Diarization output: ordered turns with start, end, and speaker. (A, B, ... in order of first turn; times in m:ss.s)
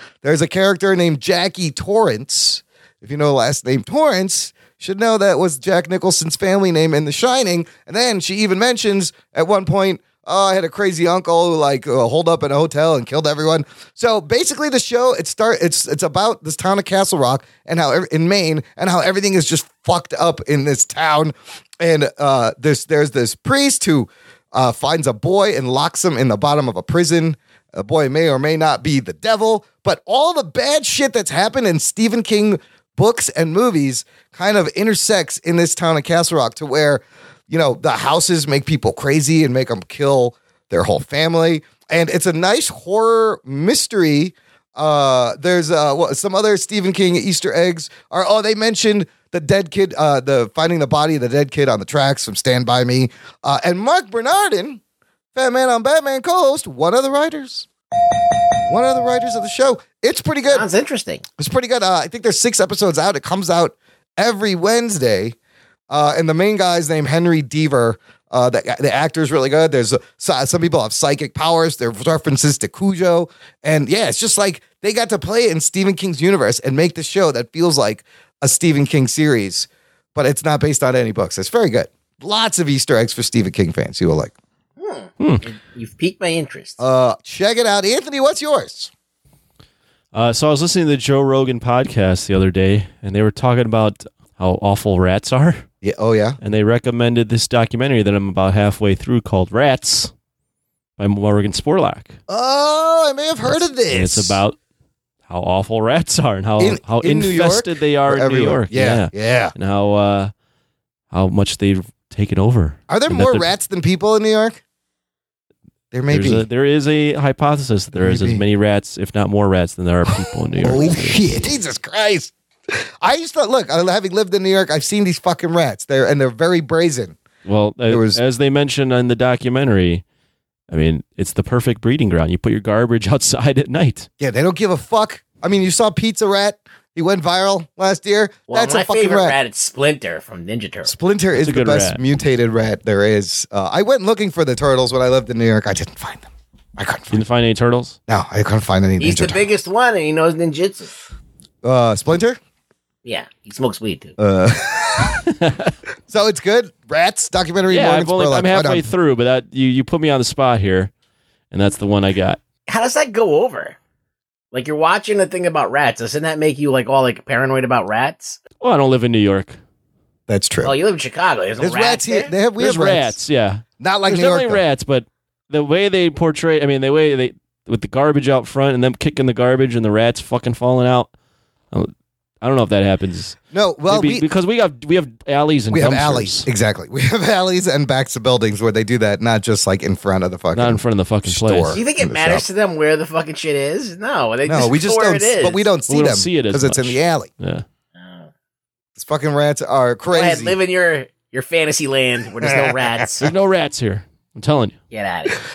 0:00.2-0:54.8 A
0:55.4-0:57.7 A
0:58.7-1:00.7 A
1:00.5-1:01.2 B
1:01.4-1:05.4 A
1:05.9-1:24.3 A
1:24.8-1:26.8 B
1:25.2-1:25.4 C
1:26.8-1:28.9 A
1:30.1-1:35.7 C
1:35.8-1:36.4 A
1:36.4-1:40.1 C
1:41.0-1:42.2 C
1:42.3-1:44.4 A
1:43.4-1:44.6 C
1:45.3-1:50.3 C
1:46.6-1:49.5 A
1:51.1-1:53.5 C
1:52.9-1:54.6 A
1:55.9-1:56.5 A
1:56.1-2:01.3 C
1:58.0-1:58.4 A
2:00.6-2:02.3 A
2:03.0-2:07.2 A
2:07.4-2:10.0 C
2:07.9-2:08.2 A
2:10.7-2:14.1 C
2:14.2-2:19.4 A
2:18.5-2:20.9 B
2:20.8-2:27.2 A
2:21.4-2:22.0 C
2:27.1-2:28.0 C
2:28.1-2:29.4 A
2:29.0-2:30.9 B
2:31.6-2:32.4 A
2:33.0-2:34.2 B
2:34.2-2:35.2 A
2:35.3-2:35.7 C
2:36.1-2:38.9 A
2:37.7-2:40.9 C
2:41.5-2:42.4 C
2:42.7-2:43.8 B
2:44.5-2:48.4 B
2:48.6-2:49.6 C
2:50.3-2:50.7 A
2:50.6-2:52.3 B
2:51.6-2:53.2 A
2:52.6-3:01.1 C
2:53.8-2:54.6 A
3:01.7-3:03.4 C
3:03.5-3:04.3 A
3:03.9-3:06.5 C
3:05.7-3:12.4 A
3:10.5-3:11.8 C
3:11.7-3:15.7 B
3:14.5-3:17.3 A
3:15.9-3:17.6 C
3:18.0-3:18.3 B
3:19.0-3:20.6 A
3:20.1-3:23.3 B
3:22.4-3:23.0 A
3:23.2-3:24.8 C
3:24.9-3:25.4 B